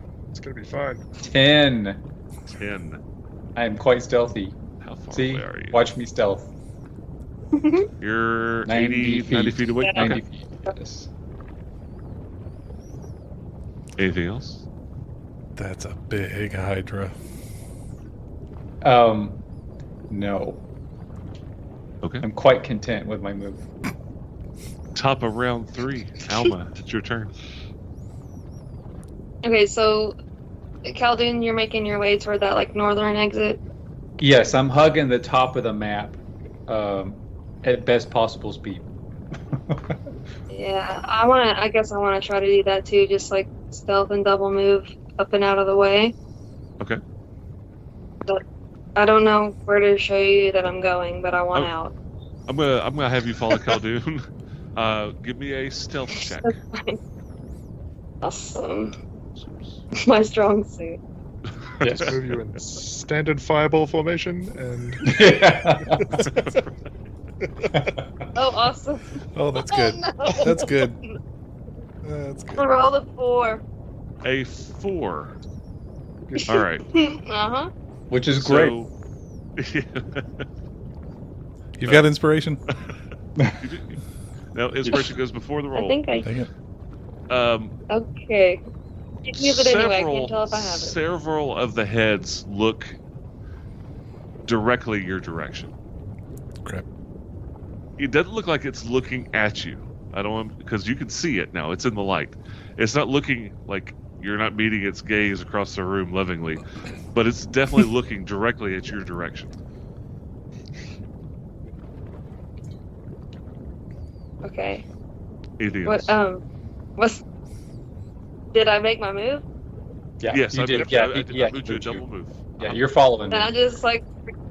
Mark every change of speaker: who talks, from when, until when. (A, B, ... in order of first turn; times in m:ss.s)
0:00.3-0:01.0 A
0:01.2-0:02.0 B
0:02.5-0:03.0 C
0:03.5-0:04.6 B
0:04.8-0:05.8 C
0:05.1-0:06.5 B
0:07.5-0:07.9 D
0:08.0-0:10.2 C
0:08.6-0:11.1 B
0:09.8-0:10.1 D
0:14.0-0:14.6 C
0:15.6-0:17.2 E
0:18.8-0:19.4 B
0:20.1-0:20.6 B
0:22.2-0:23.7 B
0:24.9-0:27.3 C
0:29.4-0:30.2 D
0:30.8-0:33.6 D
0:34.2-0:38.9 B
0:39.5-0:40.0 B
0:40.5-0:46.1 D
0:48.9-0:51.9 D
0:52.5-0:56.5 C
0:56.4-0:57.0 D
0:58.2-0:59.0 D
0:59.3-0:59.8 C
0:59.9-1:01.0 D
1:01.8-1:02.2 B
1:01.9-1:02.1 C
1:02.0-1:05.3 A
1:05.0-1:06.3 B
1:07.7-1:08.2 B
1:08.3-1:11.1 D
1:09.3-1:11.0 E
1:12.0-1:12.6 E
1:12.5-1:13.6 D
1:14.2-1:15.4 C
1:16.4-1:17.7 D
1:16.5-1:16.8 C
1:18.1-1:18.8 B
1:18.4-1:18.9 C
1:19.6-1:20.4 C
1:21.8-1:22.6 E
1:21.8-1:22.1 C
1:22.7-1:22.9 C
1:23.6-1:24.0 C
1:24.5-1:26.3 C
1:25.7-1:26.3 D
1:27.3-1:27.8 C
1:27.9-1:28.6 D
1:29.2-1:31.0 D
1:29.4-1:33.0 C
1:34.4-1:35.7 C
1:38.0-1:49.5 C
1:54.4-1:54.8 D
1:55.6-1:56.1 C
1:55.8-1:56.4 D
1:57.0-1:57.2 D
1:58.5-1:59.4 D
2:00.2-2:02.0 B
2:00.3-2:02.8 C
2:02.6-2:03.5 B
2:03.3-2:04.1 D